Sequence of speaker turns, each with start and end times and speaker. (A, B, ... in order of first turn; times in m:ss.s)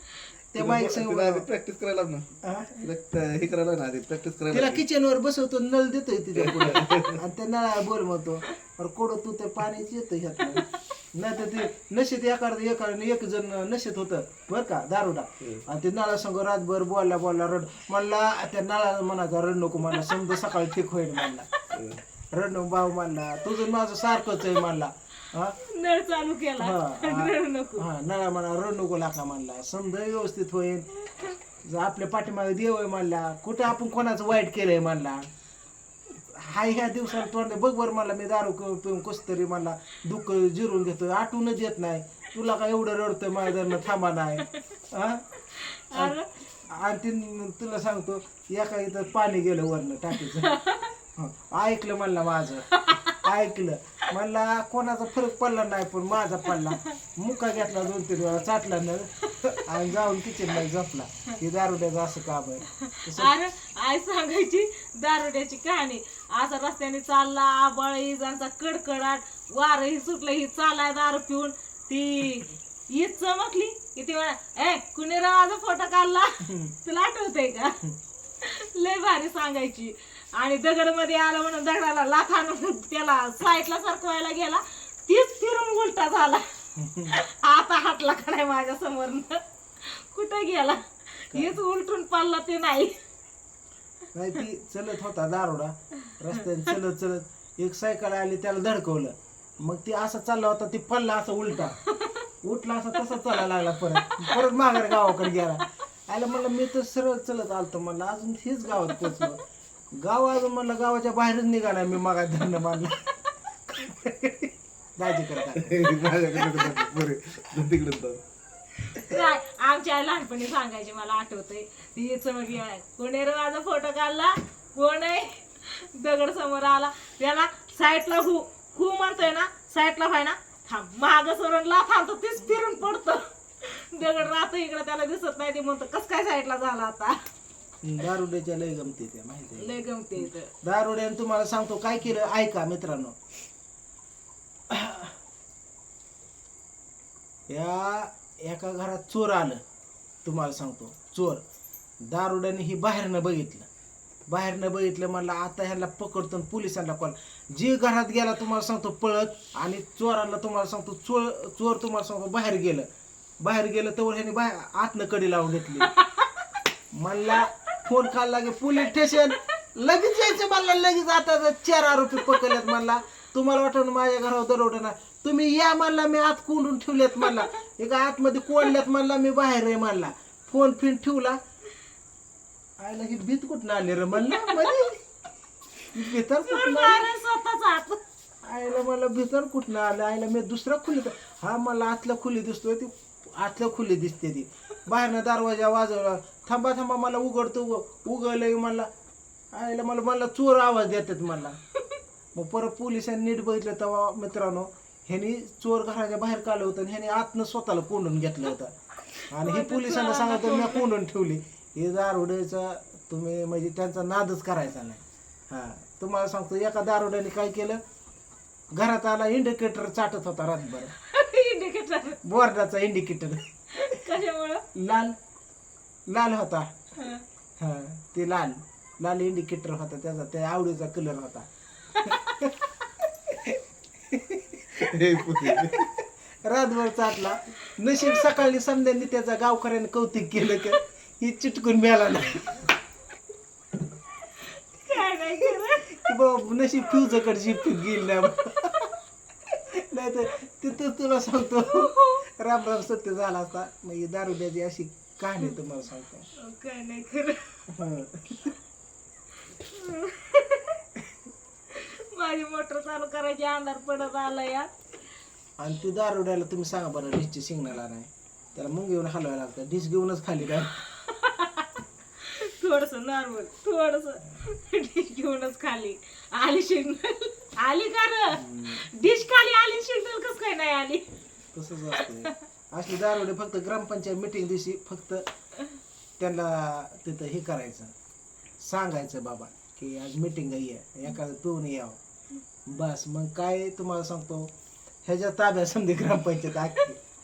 0:00.5-0:01.4 A
0:00.6-0:02.3 B
0:02.4-0:02.9 A
0:02.8-0:04.8 B
0:04.5-0:21.5 A
0:06.4-0:07.2 B
0:10.4-0:10.8 C
0:19.9-0:20.6 C
0:21.7-0:22.0 B
0:22.3-0:25.6 A
0:25.6-0:27.9 C
0:26.6-0:30.9 A
0:31.6-0:35.3 A
0:36.3-0:45.2 A
0:43.5-0:43.9 C
0:45.5-0:46.3 C
0:45.9-0:50.5 A
0:50.2-0:50.9 C
0:51.2-1:03.3 A
0:52.8-0:53.2 C
0:56.5-0:57.0 C
0:59.2-0:59.6 C
1:02.8-1:17.8 C
1:16.4-1:16.7 A
1:18.4-1:26.4 C
1:26.8-1:27.1 A
1:27.1-1:32.9 C
1:31.3-1:31.6 A
1:34.1-1:41.8 A
1:41.9-1:42.2 C
1:42.4-1:49.4 A
1:44.0-1:45.6 C
1:48.9-1:49.3 C
1:49.9-1:53.1 A
1:53.7-1:56.0 A
1:55.5-1:58.2 B
1:58.9-2:17.2 C
2:17.8-2:19.8 A
2:19.6-2:20.5 C
2:20.6-2:23.2 A
2:24.7-2:25.2 A
2:27.5-2:29.6 A
2:30.2-2:31.4 A
2:32.0-2:33.7 A
2:34.3-2:42.9 A
2:43.4-2:45.9 A
2:45.9-2:46.4 C
2:46.9-3:01.4 A
2:52.2-2:52.6 C
3:02.8-3:05.0 A
3:04.2-3:04.8 C
3:05.9-3:07.1 A
3:06.4-3:08.0 C
3:08.4-3:18.9 A
3:19.5-3:21.6 A
3:22.3-3:28.7 A
3:29.3-3:30.9 C
3:29.3-3:37.8 A
3:38.7-3:40.9 A
3:41.0-3:42.2 C
3:42.2-3:44.0 A
3:43.7-3:44.6 C
3:44.7-3:45.2 A
3:46.1-3:46.7 A
3:47.0-3:47.2 C
3:47.6-3:51.5 A
3:52.0-3:54.8 A
3:54.8-3:55.8 B
3:55.3-4:02.7 A
4:04.4-4:06.2 C
4:05.9-4:08.9 A
4:09.5-4:16.3 A
4:11.7-4:12.2 C
4:16.4-4:17.7 C
4:17.7-4:18.5 A
4:19.4-4:20.8 C
4:21.7-4:24.7 C
4:25.6-4:30.8 A
4:30.8-4:41.0 C
4:38.3-4:38.9 A
4:41.5-4:45.3 A
4:42.0-4:42.4 C
4:46.2-4:47.9 A
4:48.6-4:52.0 A
4:52.7-4:54.5 A
4:55.0-4:57.0 A